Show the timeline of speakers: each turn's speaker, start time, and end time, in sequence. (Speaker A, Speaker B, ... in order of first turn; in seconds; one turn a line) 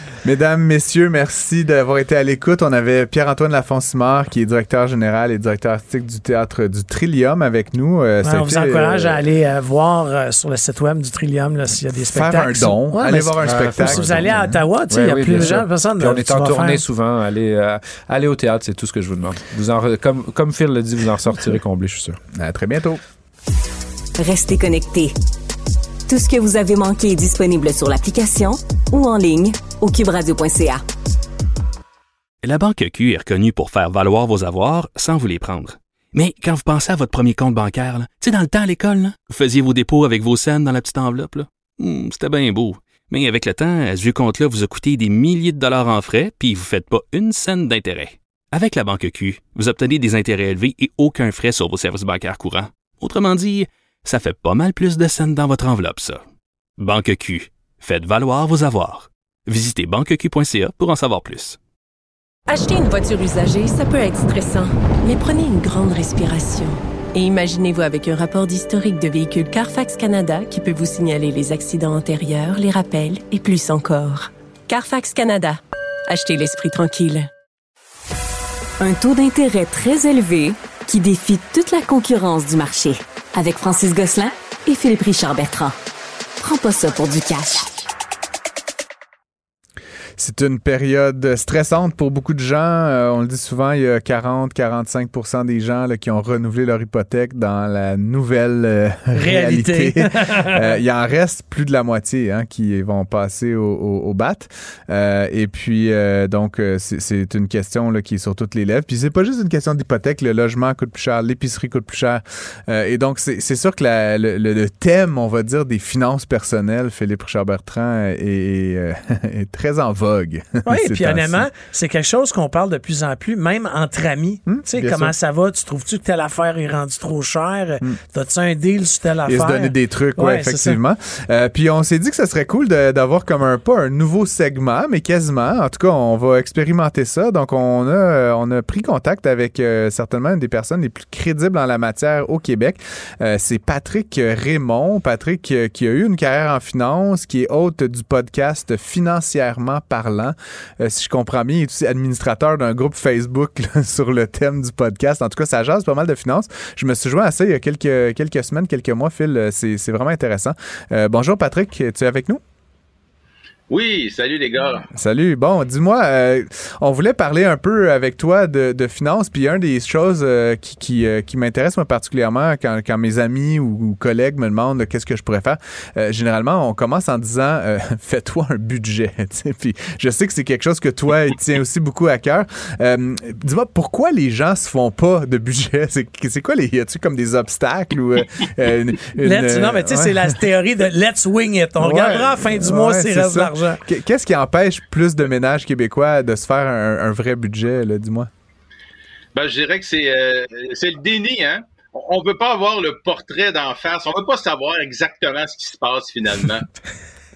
Speaker A: 0.2-9.2
Speaker B: 8.2-16.8
Speaker A: 12.1-14.5
Speaker C: 13.4-22.2
Speaker A: 22.4-23.0
Speaker D: 24.2-25.1
Speaker D: 26.1-30.8
Speaker E: 32.4-56.2
Speaker E: 56.8-61.6
Speaker F: 62.5-77.3
Speaker D: 78.8-85.8
Speaker D: 86.4-87.7
Speaker A: 90.2-121.5
Speaker B: 99.1-100.7
Speaker B: 120.7-130.8
Speaker A: 124.5-125.1
Speaker A: 129.3-162.4
Speaker G: 163.7-164.9
Speaker A: 164.9-190.4
Speaker B: 189.2-193.8
Speaker A: 191.8-198.3
Speaker G: 199.3-206.7